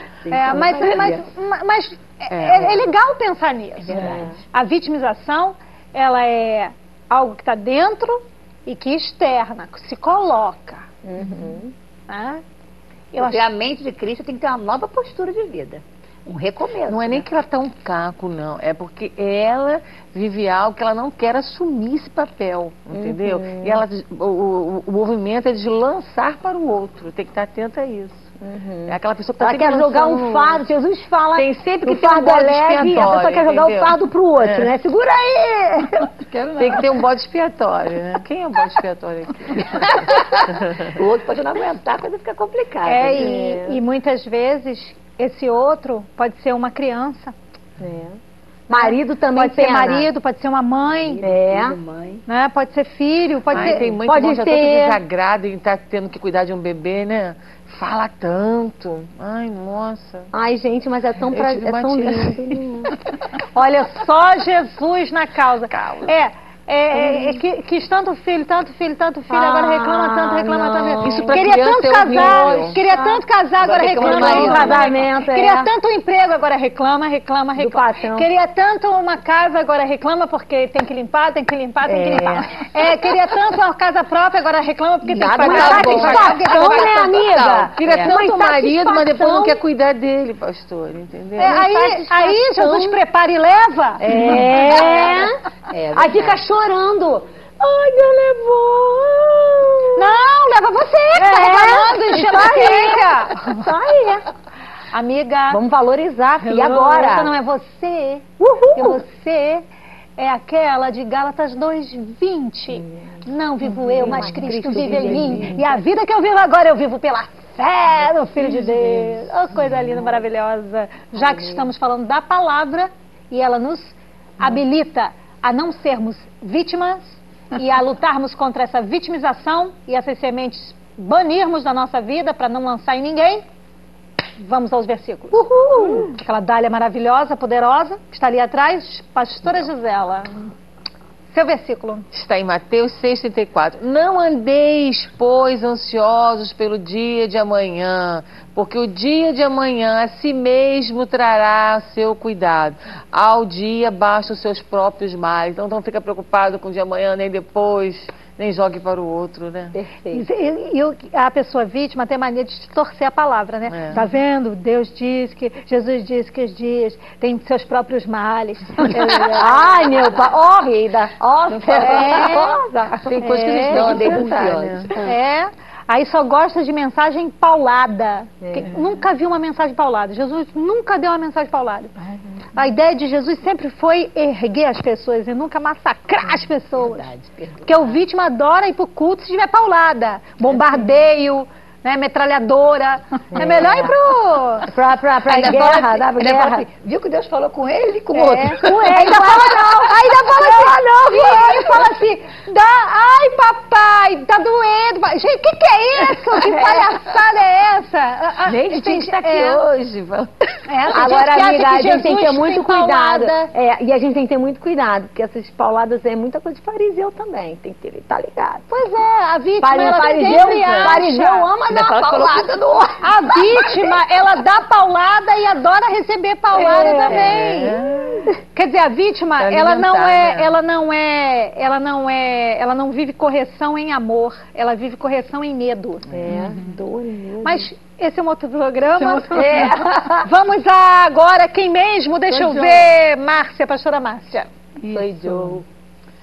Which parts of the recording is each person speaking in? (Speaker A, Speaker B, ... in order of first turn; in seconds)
Speaker A: 0.3-10.8, 12.1-12.4, 13.1-13.5, 42.9-47.3, 48.7-51.2, 52.3-54.0, 63.5-87.1, 91.4-94.0, 100.0-103.7, 104.9-105.6, 106.8-109.6, 110.2-133.4, 134.4-140.5, 141.3-142.1, 160.1-169.8, 171.8-172.6, 173.2-174.2, 175.0-181.9, 182.6-187.1, 187.6-194.7, 198.1-209.7, 210.7-213.5, 218.7-221.5, 223.0-227.8, 228.5-236.1, 237.4-244.5
Speaker B: 0.3-1.2, 3.9-4.4, 11.0-11.7, 22.9-23.8, 28.4-36.1, 43.1-43.8, 47.8-50.1, 51.2-51.8, 53.5-55.0, 60.3-62.9, 66.9-67.4, 69.3-71.4, 72.1-73.2, 73.7-75.7, 77.6-78.3, 81.8-82.7, 85.0-89.6, 91.4-93.0, 94.0-95.4, 95.9-100.1, 101.1-104.3, 105.5-107.3, 108.4-109.0, 112.7-115.8, 121.1-121.7, 135.3-136.1, 159.7-160.3, 169.3-174.7, 178.4-178.8, 193.3-194.0, 194.7-196.7, 198.6-199.9, 200.7-201.3, 210.9-218.7, 219.6-223.7, 226.5-228.3, 236.1-237.7, 239.3-240.3, 242.3-242.9, 244.9-245.7
Speaker C: 0.3-0.8, 13.2-17.3, 40.2-43.3, 51.0-52.2, 85.2-87.7, 94.5-95.2, 95.7-96.4, 173.5-174.9, 186.8-187.8, 195.3-201.9, 221.7-223.1, 223.6-223.9, 227.0-227.3
Speaker D: 2.3-2.9, 16.9-28.3, 28.9-30.7, 31.4-34.7, 36.6-41.0, 53.5-60.3, 61.3-62.6, 65.7-66.1, 71.0-72.8, 73.6-75.0, 85.5-85.9, 87.5-91.6, 142.1-159.8, 163.7-164.0, 171.5-172.3, 173.2-175.1, 208.5-210.4, 220.5-221.0, 227.3-228.3, 229.4-230.5, 236.1-236.4
Speaker E: 3.9-4.2, 36.2-37.0, 106.4-107.0, 114.0-115.5, 118.4-119.1, 236.3-236.8, 238.9-239.8, 244.8-245.7